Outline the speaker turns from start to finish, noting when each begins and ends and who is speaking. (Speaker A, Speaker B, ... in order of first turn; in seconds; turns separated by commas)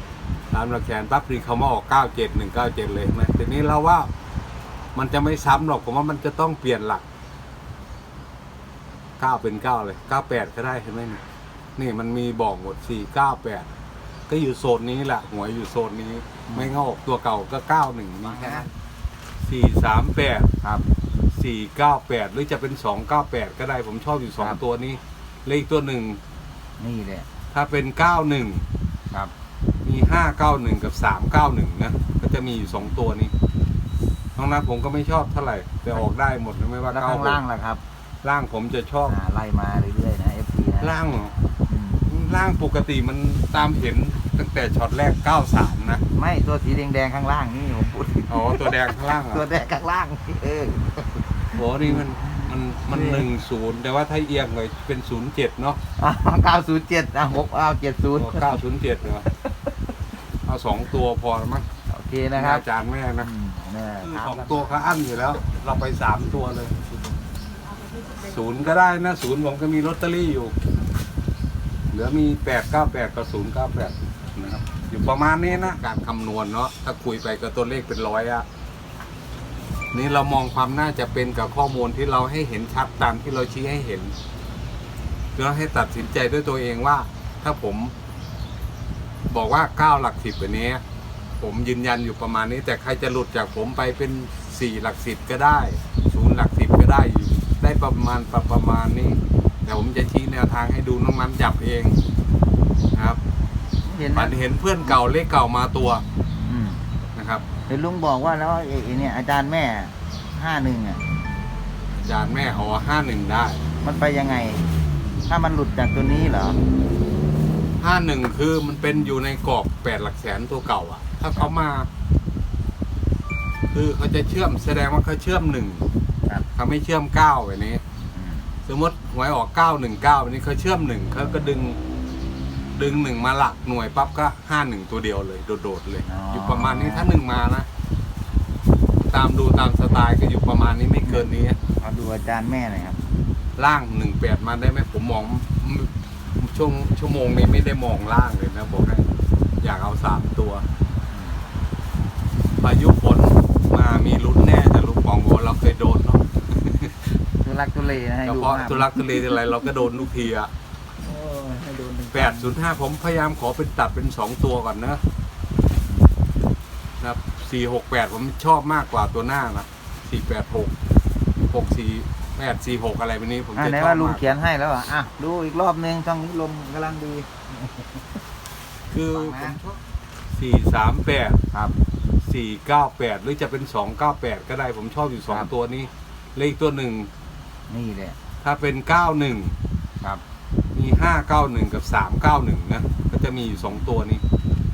Speaker A: 0.5-4.1, Speaker A: 5.0-7.0, Speaker A: 9.2-11.2, Speaker A: 11.8-13.7, Speaker A: 14.3-18.7, Speaker B: 16.5-16.8, Speaker B: 18.2-18.7, Speaker A: 19.4-20.5, Speaker A: 21.3-26.2, Speaker B: 26.8-27.3, Speaker A: 27.5-28.6, Speaker A: 29.9-33.3, Speaker A: 34.4-37.4, Speaker B: 36.9-37.8, Speaker A: 38.2-39.1, Speaker B: 39.1-41.0, Speaker A: 40.8-41.3, Speaker B: 41.7-42.1, Speaker A: 42.1-46.0, Speaker B: 46.1-48.7, Speaker A: 48.3-49.5, Speaker B: 49.3-53.3, Speaker A: 51.5-55.8, Speaker B: 56.0-58.6, Speaker A: 58.2-59.3, Speaker B: 59.3-59.7, Speaker A: 60.5-61.6, Speaker B: 61.9-62.6, Speaker A: 62.4-63.3, Speaker B: 63.2-64.8, Speaker A: 64.0-66.9, Speaker A: 68.2-70.5, Speaker A: 71.9-78.5, Speaker B: 75.5-75.8, Speaker A: 79.9-84.1, Speaker A: 85.4-87.9, Speaker A: 89.3-90.8, Speaker A: 91.4-102.0, Speaker A: 102.9-103.2, Speaker B: 103.8-104.4, Speaker A: 104.1-106.0, Speaker B: 106.5-106.8, Speaker A: 107.2-107.4, Speaker B: 107.7-111.0, Speaker A: 112.1-113.6, Speaker B: 113.8-114.7, Speaker B: 115.3-116.6, Speaker A: 117.8-121.9, Speaker A: 123.7-125.9, Speaker A: 126.5-127.8, Speaker B: 128.1-128.5, Speaker A: 128.7-131.8, Speaker A: 132.8-137.7, Speaker B: 136.1-137.1, Speaker A: 139.1-141.6, Speaker B: 141.0-141.3, Speaker B: 141.8-143.0, Speaker A: 143.6-149.1, Speaker A: 149.6-150.6, Speaker B: 151.1-151.4, Speaker A: 152.6-157.2, Speaker B: 157.4-159.4, Speaker A: 158.2-160.5, Speaker B: 161.0-162.5, Speaker A: 162.1-165.0, Speaker A: 167.0-170.7, Speaker A: 171.5-174.3, Speaker B: 173.6-178.2, Speaker A: 178.9-179.8, Speaker B: 179.1-179.6, Speaker A: 180.3-181.4, Speaker A: 182.2-187.1, Speaker B: 187.7-188.2, Speaker A: 188.4-189.6, Speaker A: 190.8-194.2